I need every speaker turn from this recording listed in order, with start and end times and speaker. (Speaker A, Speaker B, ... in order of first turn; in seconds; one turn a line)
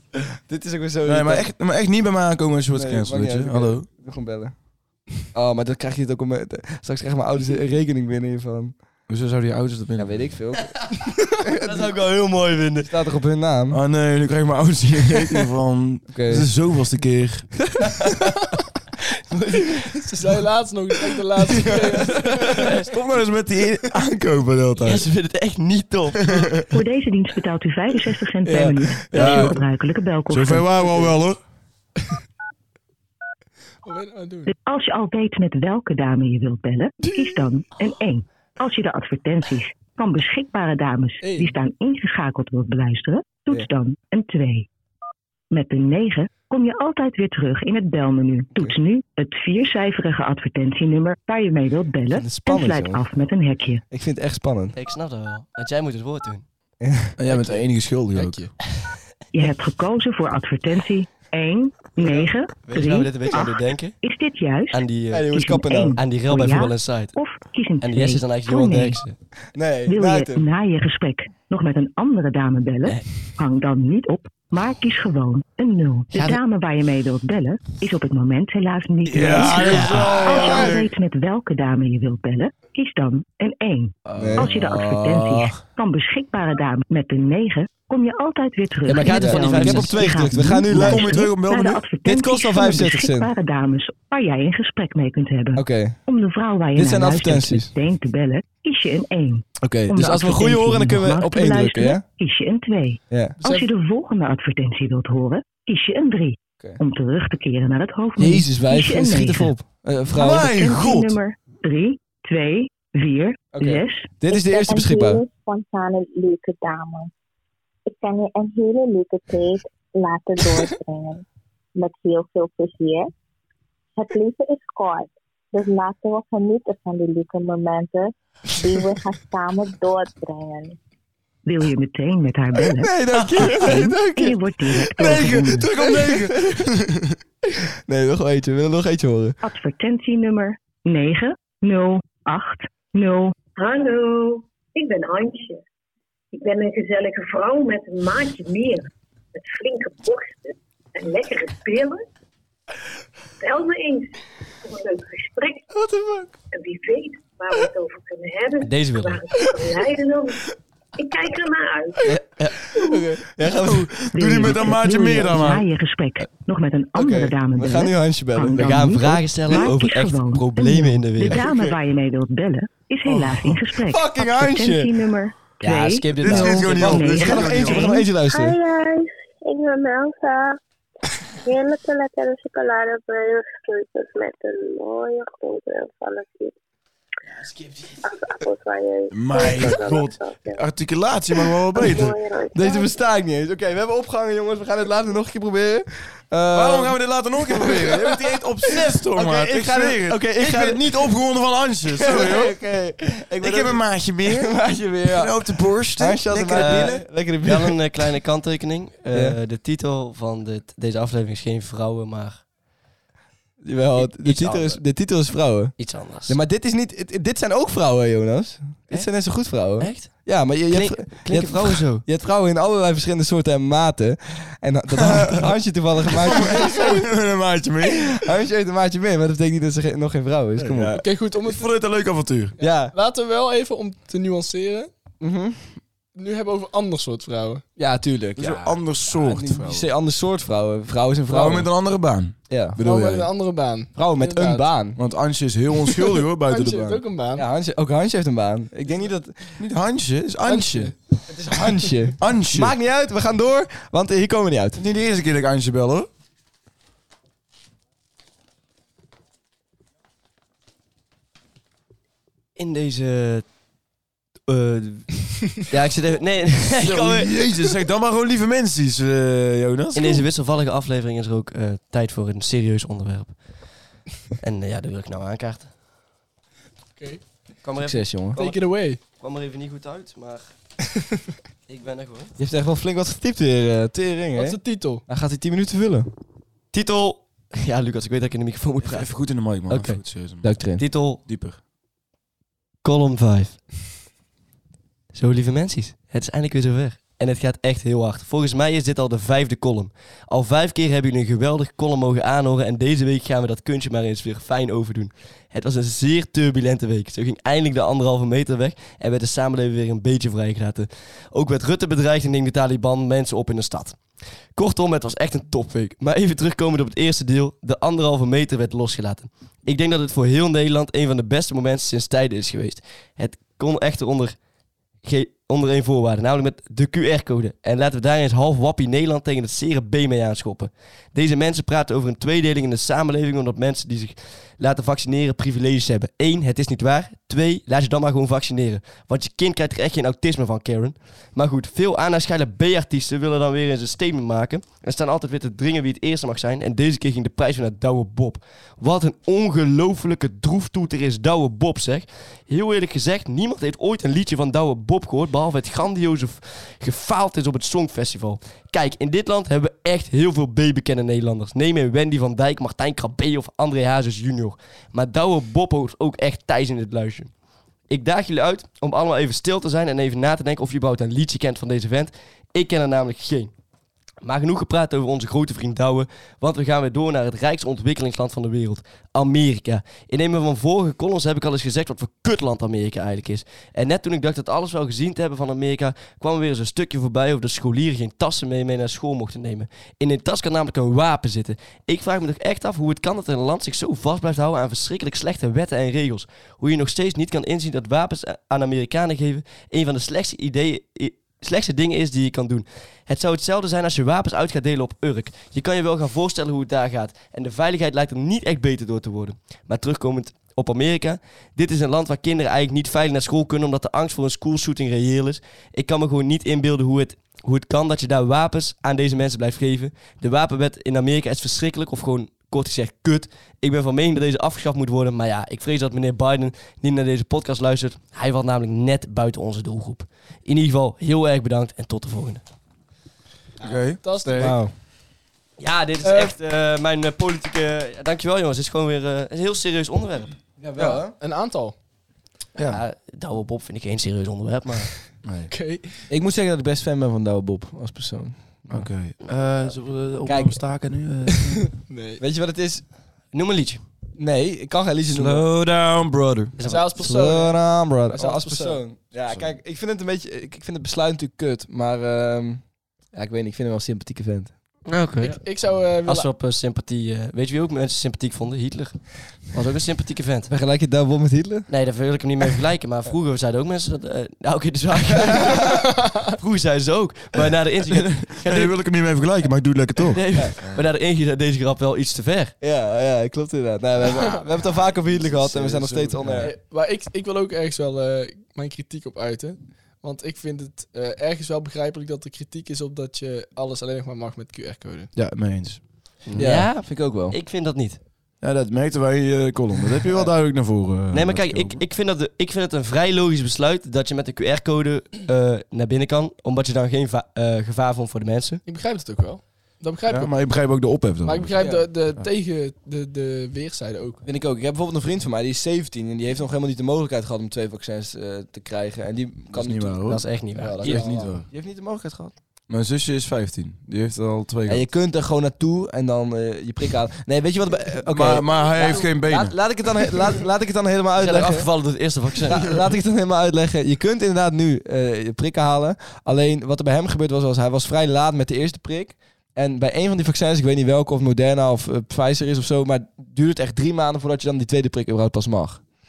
Speaker A: 0.5-1.5
Speaker B: 1.0-3.9
Speaker A: 2.7-4.5
Speaker A: 5.3-8.7
Speaker B: 9.1-10.3
Speaker A: 10.0-10.8
Speaker A: 11.4-11.9
Speaker C: 11.6-12.9
Speaker A: 12.8-13.8
Speaker B: 13.7-17.9
Speaker A: 16.1-16.5
Speaker A: 19.3-19.7
Speaker D: 19.9-22.7
Speaker B: 21.5-21.8
Speaker B: 22.6-25.1
Speaker C: 24.8-26.5
Speaker B: 26.2-26.6
Speaker E: 26.7-30.7
Speaker A: 28.4-29.6
Speaker B: 29.1-29.6
Speaker B: 30.3-31.4
Speaker D: 33.8-34.5
Speaker E: 34.5-44.7
Speaker D: 41.2-41.5
Speaker E: 45.5-53.8
Speaker A: 52.1-53.0
Speaker A: 53.9-54.8
Speaker C: 54.8-56.4
Speaker A: 56.8-57.2
Speaker B: 57.2-58.5
Speaker D: 57.3-57.6
Speaker D: 58.1-58.5
Speaker E: 59.3-69.0
Speaker C: 62.6-64.0
Speaker C: 64.7-65.3
Speaker A: 65.1-66.0
Speaker C: 66.0-67.2
Speaker C: 67.8-69.2
Speaker A: 69.5-70.5
Speaker E: 69.9-109.5
Speaker C: 76.1-76.4
Speaker B: 79.1-80.9
Speaker C: 79.4-80.7
Speaker B: 84.1-85.6
Speaker A: 84.2-85.1
Speaker C: 88.9-90.0
Speaker A: 89.1-91.2
Speaker B: 90.7-91.9
Speaker A: 92.0-93.3
Speaker A: 95.6-96.0
Speaker A: 96.8-97.7
Speaker A: 99.6-102.0
Speaker A: 103.1-103.4
Speaker D: 103.4-103.7
Speaker A: 108.2-110.5
Speaker B: 110.1-111.2
Speaker E: 110.2-114.2
Speaker A: 113.5-115.2
Speaker F: 114.3-117.1
Speaker F: 117.9-121.2
Speaker F: 121.8-123.1
Speaker F: 124.0-130.8
Speaker E: 131.4-133.0
Speaker A: 132.8-134.7
Speaker B: 133.1-133.8
Speaker E: 133.5-135.8
Speaker B: 134.7-137.0
Speaker A: 136.0-136.6
Speaker A: 137.9-139.4
Speaker E: 139.4-143.3
Speaker G: 143.6-145.6
Speaker G: 146.4-148.8
Speaker G: 149.4-150.4
Speaker G: 151.0-152.0
Speaker G: 153.4-154.1
Speaker G: 154.7-155.6
Speaker A: 155.8-156.3
Speaker G: 156.5-160.3
Speaker C: 158.6-159.2
Speaker G: 161.0-162.0
Speaker C: 162.1-162.6
Speaker A: 162.8-164.0
Speaker B: 163.6-165.7
Speaker E: 164.1-178.1
Speaker A: 166.9-168.9
Speaker C: 168.5-171.5
Speaker A: 171.3-171.6
Speaker B: 173.1-173.6
Speaker A: 173.8-175.1
Speaker C: 175.6-176.9
Speaker B: 176.2-178.0
Speaker A: 176.3-178.6
Speaker F: 178.2-180.6
Speaker F: 181.4-186.6
Speaker F: 188.0-190.6
Speaker B: 189.1-192.2
Speaker F: 191.7-192.9
Speaker A: 192.5-198.2
Speaker B: 196.5-202.6
Speaker A: 199.0-201.1
Speaker A: 201.9-207.8
Speaker B: 203.4-207.0
Speaker C: 206.5-212.4
Speaker A: 209.1-209.4
Speaker A: 213.6-215.8
Speaker C: 214.0-214.8
Speaker C: 215.8-216.4
Speaker A: 216.3-227.0
Speaker C: 219.8-222.1
Speaker B: 226.2-228.2
Speaker A: 227.8-231.0
Speaker B: 230.6-232.6
Speaker D: 231.0-231.7
Speaker A: 232.6-232.9
Speaker D: 232.6-234.9
Speaker A: 235.2-235.6
Speaker D: 236.2-237.6
Speaker A: 237.8-241.7
Speaker B: 238.4-239.9
Speaker B: 241.3-243.3
Speaker A: 242.5-242.8
Speaker D: 242.8-244.7
Speaker A: 244.0-245.0
Speaker B: 245.0-247.0
Speaker D: 246.4-247.4
Speaker A: 247.4-249.6
Speaker B: 249.6-250.9
Speaker D: 250.4-250.9
Speaker A: 251.3-254.8
Speaker B: 252.2-252.7
Speaker B: 254.8-256.1
Speaker C: 262.6-263.4
Speaker C: 264.5-265.1
Speaker C: 265.6-267.3
Speaker B: 266.8-270.2
Speaker C: 269.9-273.4
Speaker C: 274.4-275.7
Speaker C: 277.6-278.6
Speaker A: 277.8-278.4
Speaker D: 278.4-279.0
Speaker C: 279.1-280.4
Speaker C: 281.7-282.3
Speaker A: 282.4-286.1
Speaker D: 284.4-285.0
Speaker C: 286.7-289.1
Speaker B: 288.8-290.5
Speaker C: 289.7-290.0
Speaker A: 290.4-290.8
Speaker C: 290.8-291.2
Speaker B: 291.2-291.6
Speaker C: 292.8-293.6
Speaker C: 295.1-314.0
Speaker C: 314.6-324.4
Speaker C: 325.0-367.3
Speaker C: 367.9-373.5
Speaker C: 374.2-432.4
Speaker D: 433.6-434.6
Speaker B: 433.6-434.6
Speaker A: 434.4-434.7
Speaker C: 435.6-440.3
Speaker D: 436.0-436.3
Speaker A: 440.6-441.1
Speaker D: 440.8-441.8
Speaker B: 442.6-442.8
Speaker C: 442.7-444.9
Speaker B: 445.2-445.5
Speaker D: 445.5-445.9
Speaker A: 446.1-448.9
Speaker B: 448.7-451.7
Speaker C: 449.2-449.8
Speaker A: 450.3-450.6
Speaker D: 451.5-452.2
Speaker A: 452.2-452.9
Speaker C: 453.3-453.8
Speaker A: 454.2-455.4
Speaker B: 455.1-456.6
Speaker C: 456.6-457.1
Speaker D: 456.6-457.6
Speaker A: 457.0-464.5
Speaker D: 458.1-458.8
Speaker C: 464.9-465.4
Speaker D: 465.2-466.3
Speaker C: 466.1-470.5
Speaker A: 470.5-471.7
Speaker C: 471.7-478.7
Speaker D: 475.7-476.3
Speaker B: 477.9-480.8
Speaker C: 480.1-482.5
Speaker A: 482.6-486.5
Speaker D: 484.1-484.4
Speaker B: 485.1-486.5
Speaker D: 486.4-495.1
Speaker B: 495.1-495.8
Speaker C: 496.3-498.0
Speaker A: 496.4-497.4
Speaker B: 498.4-501.8
Speaker C: 501.1-508.6
Speaker D: 508.7-510.3
Speaker B: 510.1-512.3
Speaker D: 511.2-514.2
Speaker A: 511.6-511.9
Speaker A: 514.2-520.0
Speaker B: 519.5-520.2
Speaker C: 520.1-521.0
Speaker D: 520.6-521.4
Speaker B: 520.8-521.5
Speaker A: 520.9-522.3
Speaker B: 522.7-524.8
Speaker A: 524.7-531.7
Speaker B: 528.1-529.6
Speaker C: 531.2-532.7
Speaker A: 532.5-545.9